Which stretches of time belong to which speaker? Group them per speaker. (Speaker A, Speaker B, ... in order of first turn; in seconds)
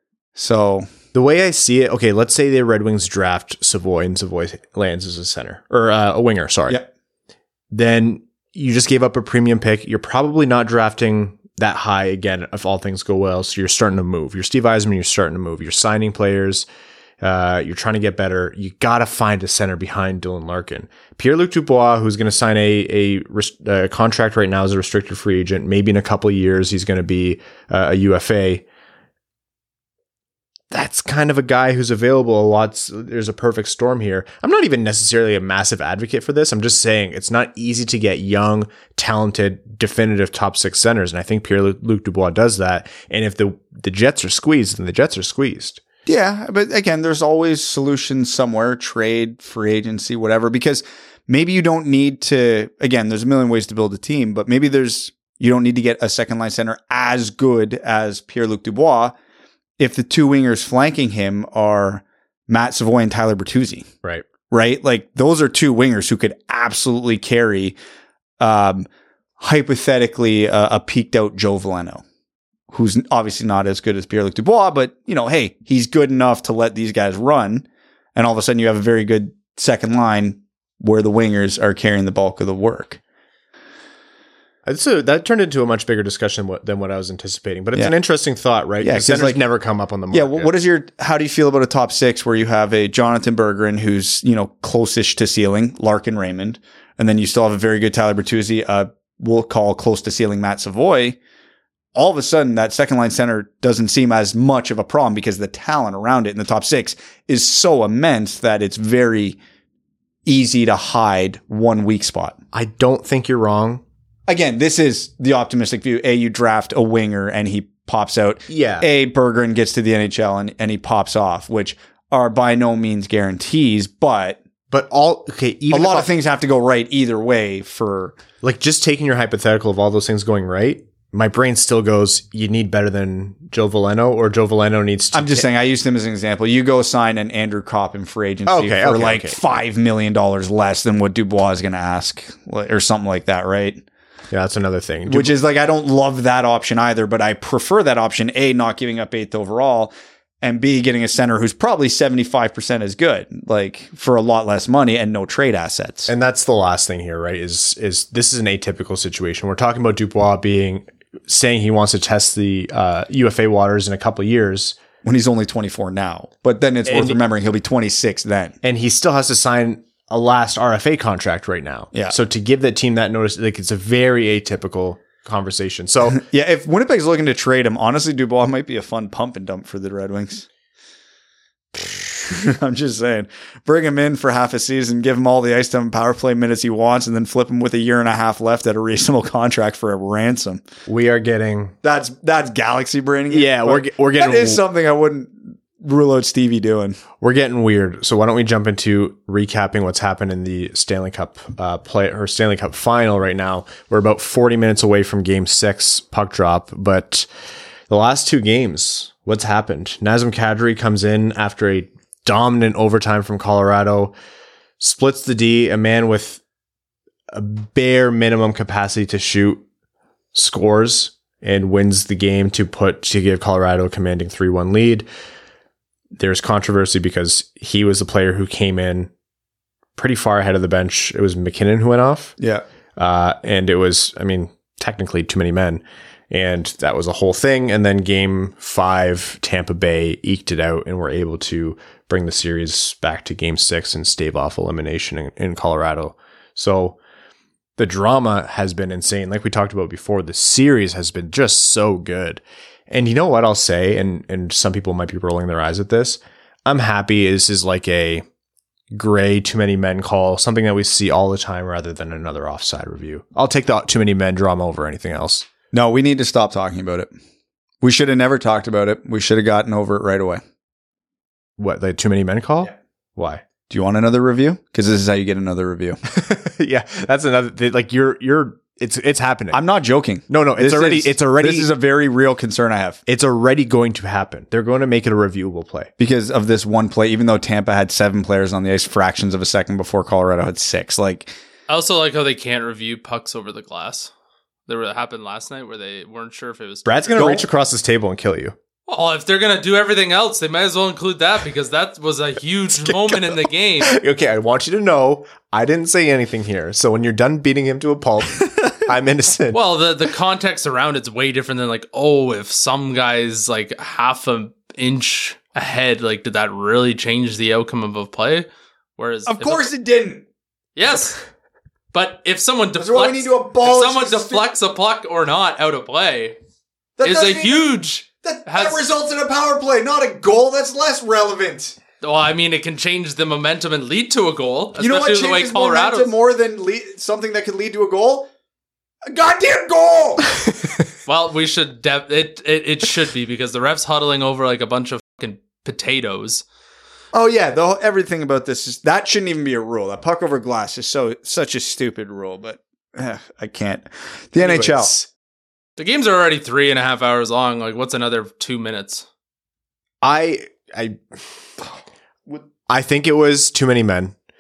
Speaker A: 0.3-0.9, 46.1-59.1, 59.8-63.9, 64.5-67.8, 68.4-68.9, 69.4-72.0, 72.7-77.7, 78.2-83.0, 88.8-89.4, 90.1-101.2, 102.0-109.4, 110.3-112.4, 114.3-124.4, 125.7-128.2, 135.1-143.8, 145.1-156.1, 165.0-168.6, 176.1-180.5, 181.7-190.7, 191.8-197.0, 232.4-232.6, 265.7-267.1, 267.8-270.4, 273.7-276.0, 279.5-283.0, 286.0-291.3, 297.2-297.4, 319.3-320.2, 322.8-324.4, 327.0-327.7, 328.2-331.8, 334.8-338.3, 339.1-340.3, 347.1-354.9
Speaker B: 1.1-6.8, 7.7-16.6, 17.2-28.6, 30.7-45.8, 84.7-90.5, 112.5-113.8, 118.5-118.9, 124.7-126.1, 128.4-135.5, 138.5-139.4, 144.3-145.3, 156.1-164.8, 166.9-167.2, 168.6-176.2, 190.9-191.8, 193.3-194.6, 197.2-207.3, 207.9-214.2, 214.8-216.4, 217.3-219.6, 220.3-225.1, 226.1-229.1, 230.0-232.4, 233.0-247.0, 247.8-258.2, 258.9-265.5, 271.6-273.4, 276.1-279.6, 280.3-281.7, 283.1-285.9, 296.9-298.6, 302.7-309.6, 354.4-355.1, 360.0-361.8, 362.3-364.1
Speaker C: 291.7-294.1, 294.7-297.0, 298.9-304.0, 309.5-319.7, 320.8-321.2, 321.9-326.4, 327.0-328.9, 332.0-336.1, 341.1-346.4, 355.8-359.1